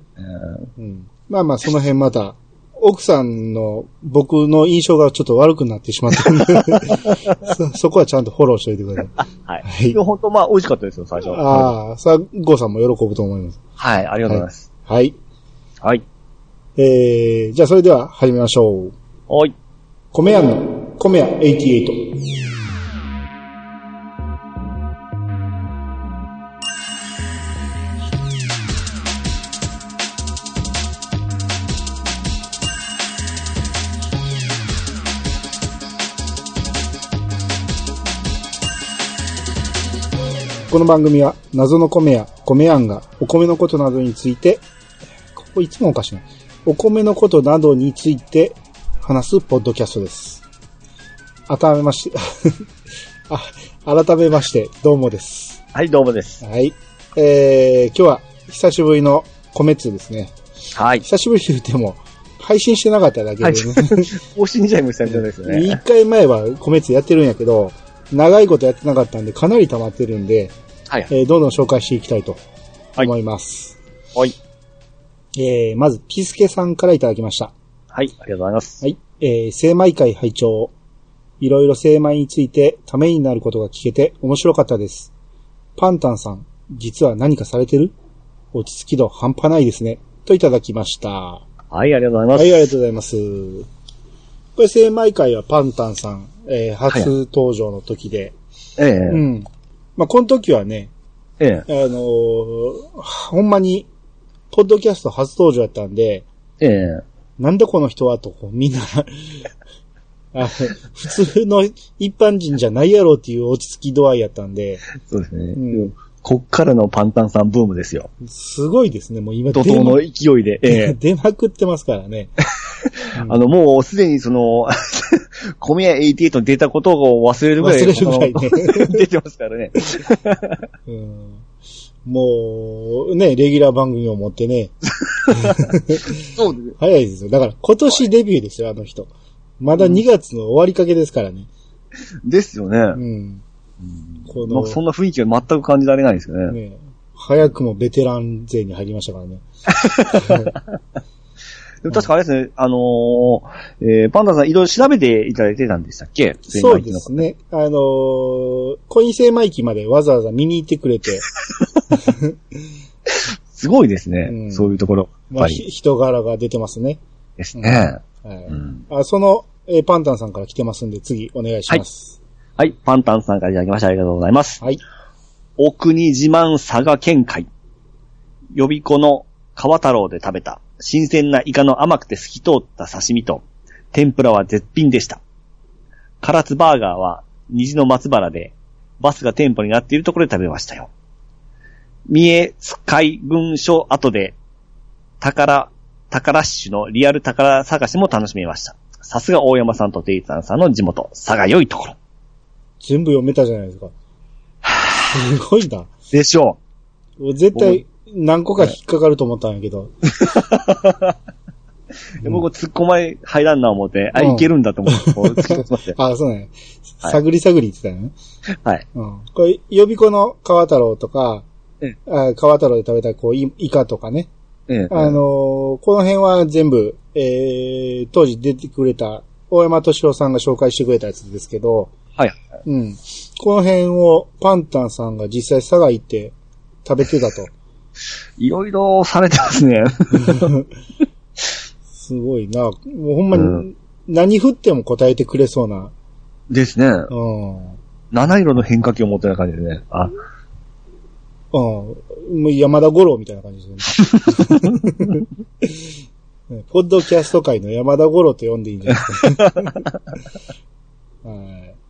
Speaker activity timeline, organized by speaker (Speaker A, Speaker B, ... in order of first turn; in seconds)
Speaker A: 0.2-0.7, 6.6-7.3, 9.2-11.7, 13.8-14.7, 19.3-19.5, 55.7-56.4, 60.8-61.0, 63.4-65.8, 77.9-78.8, 91.7-92.7, 98.8-99.2, 101.4-101.7, 106.6-107.0, 115.0-118.1, 119.5-121.0, 123.2-130.7, 135.0-135.7, 136.3-136.7, 142.2-143.0, 143.8-146.6, 149.8-150.6, 151.8-157.3, 163.1-165.6, 167.4-168.8, 172.6-174.6, 175.6-177.5, 178.5-185.2, 186.2-190.9, 192.1-194.4, 195.2-202.0, 204.6-205.1, 206.1-206.6, 207.6-207.8, 210.2-211.2, 212.2-216.0, 224.7-225.2, 238.4-240.5, 243.3-243.6, 246.5-247.1, 248.1-250.1, 254.3-254.8, 259.2-259.7
Speaker B: 0.8-10.0, 11.3-13.6, 14.3-15.2, 16.8-18.9, 20.1-22.1, 40.7-44.6, 45.4-50.4, 51.5-52.6, 53.3-55.6, 56.4-60.3, 61.0-64.2, 65.1-70.5, 71.1-72.4, 73.0-73.8, 75.4-77.5, 78.8-80.7, 81.4-85.1, 85.8-87.9, 88.5-91.4, 92.3-93.7, 94.6-98.3, 99.1-100.9, 101.7-103.9, 104.5-106.2, 107.4-109.4, 110.3-114.9, 115.5-115.9, 118.2-120.0, 120.7-122.3, 123.1-123.4, 127.6-129.0, 130.9-131.4, 132.1-134.7, 135.3-136.2, 136.8-141.5, 142.9-143.4, 144.3-144.8, 146.5-149.4, 150.0-150.6, 156.5-161.3, 161.9-162.4, 164.3-164.8, 165.3-167.0, 167.6-172.2, 202.8-203.9, 205.1-205.9, 207.2-209.9, 214.2-218.1, 218.9-221.4, 222.1-224.3, 224.9-231.9, 232.7-237.5, 240.2-240.6, 241.9-245.9, 247.1-247.8, 251.5-255.9, 256.5-259.8, 261.2-261.8